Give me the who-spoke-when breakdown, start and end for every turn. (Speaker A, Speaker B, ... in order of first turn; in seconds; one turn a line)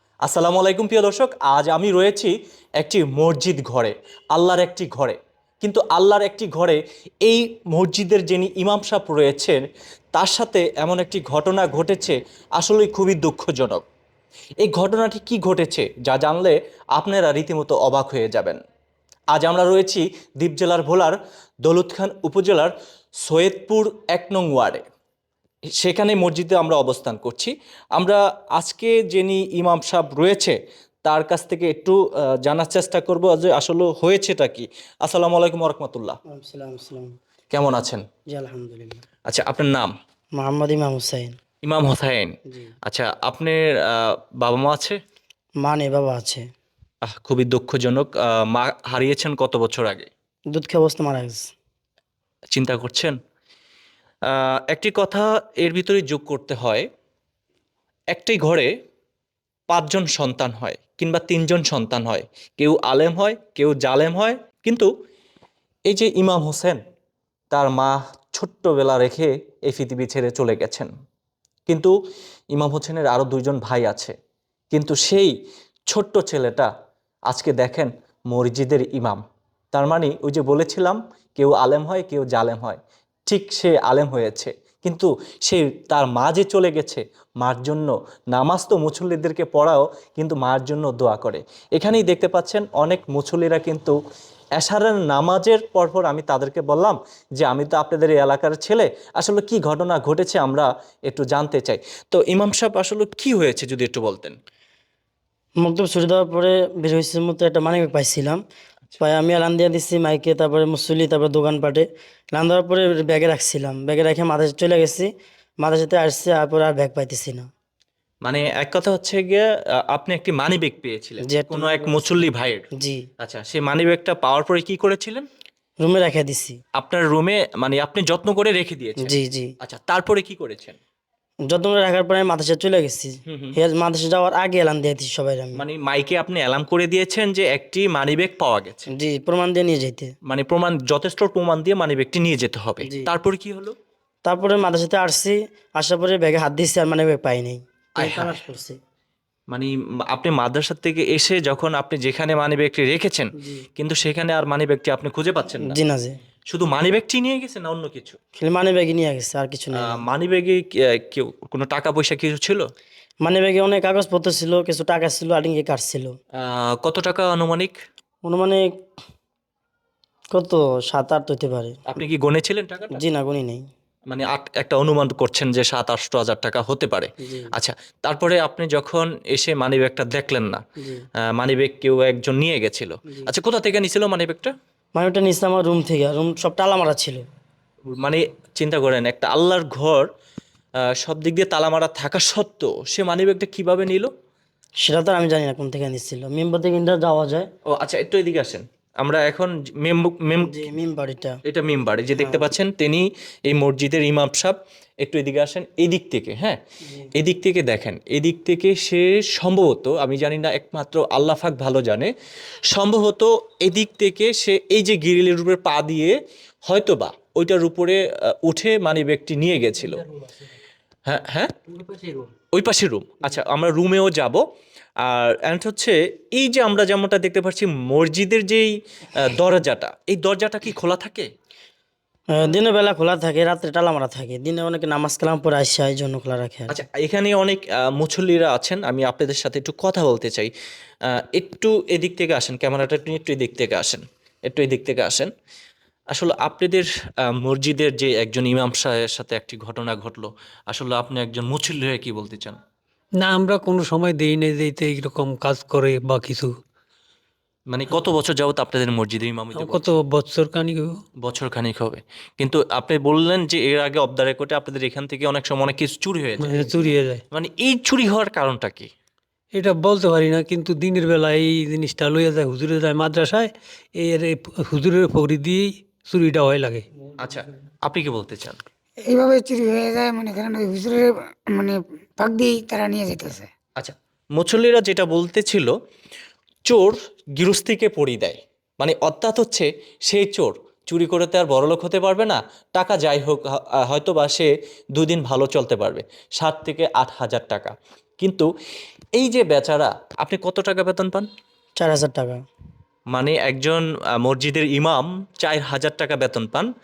Speaker A: 0.2-9.6
Speaker A: 10.1-13.8
Speaker A: 14.6-18.6
Speaker A: 19.3-22.7
Speaker A: 23.3-24.8
Speaker A: 25.8-36.2
Speaker B: 36.3-37.2
Speaker A: 37.5-38.0
Speaker B: 38.3-39.0
Speaker A: 39.3-39.9
Speaker B: 40.4-41.4
Speaker A: 41.6-42.4
Speaker A: 42.9-45.0
Speaker B: 45.6-46.4
Speaker A: 47.1-50.1
Speaker B: 50.5-51.5
Speaker A: 52.5-53.2
Speaker A: 54.3-56.9
Speaker A: 58.1-58.7
Speaker A: 59.7-64.9
Speaker A: 65.9-66.8
Speaker A: 67.5-70.9
Speaker A: 71.7-71.9
Speaker A: 72.5-74.1
Speaker A: 74.7-75.3
Speaker A: 75.9-76.7
Speaker A: 77.3-79.2
Speaker A: 79.7-94.0
Speaker A: 94.6-104.4
Speaker B: 105.6-108.4
Speaker B: 109.0-115.1
Speaker B: 115.6-117.5
Speaker A: 118.2-122.7
Speaker B: 121.3-122.0
Speaker A: 123.2-125.3
Speaker B: 125.8-126.6
Speaker A: 126.8-130.8
Speaker B: 129.0-129.5
Speaker B: 131.5-135.6
Speaker A: 133.3-133.6
Speaker A: 135.6-138.9
Speaker B: 139.0-140.1
Speaker A: 140.3-143.8
Speaker B: 144.3-148.8
Speaker A: 148.0-148.3
Speaker A: 149.5-155.8
Speaker B: 155.6-156.1
Speaker A: 156.5-158.2
Speaker B: 158.4-160.0
Speaker A: 159.8-162.7
Speaker B: 163.2-166.1
Speaker A: 166.4-167.8
Speaker B: 168.2-168.7
Speaker B: 170.3-171.8
Speaker A: 171.9-173.0
Speaker B: 173.0-173.7
Speaker A: 174.1-180.6
Speaker A: 181.3-184.5
Speaker B: 185.0-187.2
Speaker A: 187.9-190.1
Speaker A: 190.9-194.1
Speaker B: 194.8-197.5
Speaker A: 197.7-200.7
Speaker B: 200.4-201.4
Speaker A: 201.5-206.6
Speaker B: 202.2-202.5
Speaker A: 207.2-212.1
Speaker A: 212.7-220.0
Speaker A: 221.1-221.5
Speaker C: 221.7-222.3
Speaker A: 222.5-224.4
Speaker A: 225.0-231.3
Speaker B: 232.3-236.7
Speaker A: 236.7-240.5
Speaker A: 241.1-245.3
Speaker A: 246.1-252.6
Speaker C: 253.2-256.5
Speaker A: 257.7-259.9
Speaker C: 259.6-260.9
Speaker A: 261.2-266.8
Speaker C: 266.4-267.2
Speaker A: 267.3-268.9
Speaker C: 269.5-276.9
Speaker A: 277.2-278.6
Speaker D: 279.1-283.5
Speaker A: 283.8-285.7
Speaker A: 286.7-298.5
Speaker A: 299.2-301.3
Speaker B: 301.8-302.4
Speaker A: 303.1-306.7